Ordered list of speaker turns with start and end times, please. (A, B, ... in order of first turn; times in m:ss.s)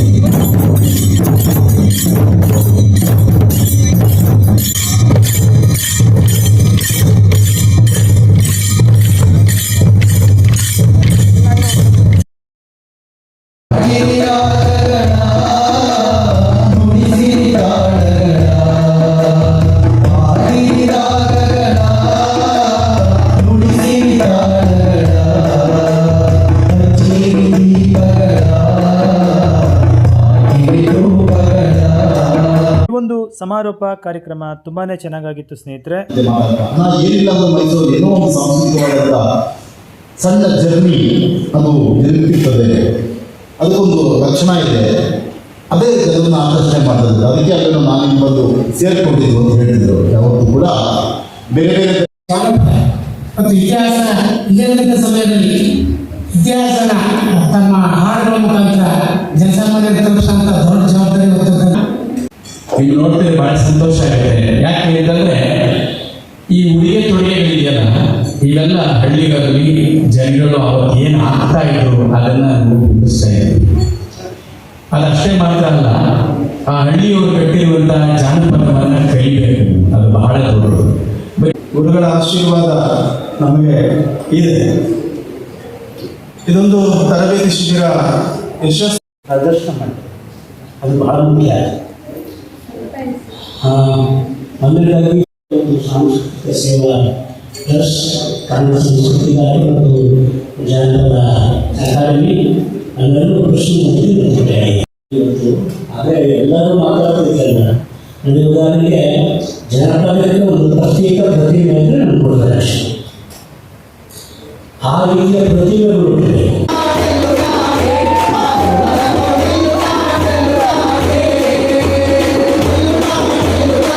0:23.8-0:24.4 A
0:30.6-0:31.4 A
0:32.9-0:36.0 B
0:36.1-0:39.2 C
0:40.2-0:41.0 C
0:41.5-0:42.7 C
0:43.6-0:44.8 C
0:45.7-0:50.7 C
0:51.5-0:52.1 C
0:52.3-0:52.8 D
0:53.4-0:55.6 D
0:56.4-1:01.8 D
1:02.8-1:05.4 E
1:06.5-1:07.9 E
1:08.4-1:13.6 E
1:14.9-1:15.9 E
1:16.7-1:21.5 E
1:21.7-1:22.8 F
1:23.4-1:23.8 F
1:24.3-1:24.6 F
1:26.5-1:28.0 F
1:28.6-1:28.9 F
1:29.3-1:30.1 A
1:30.8-1:31.7 A
1:33.5-1:37.1 A
1:37.7-1:49.2 A
1:49.7-1:52.9 A
1:54.8-1:56.6 A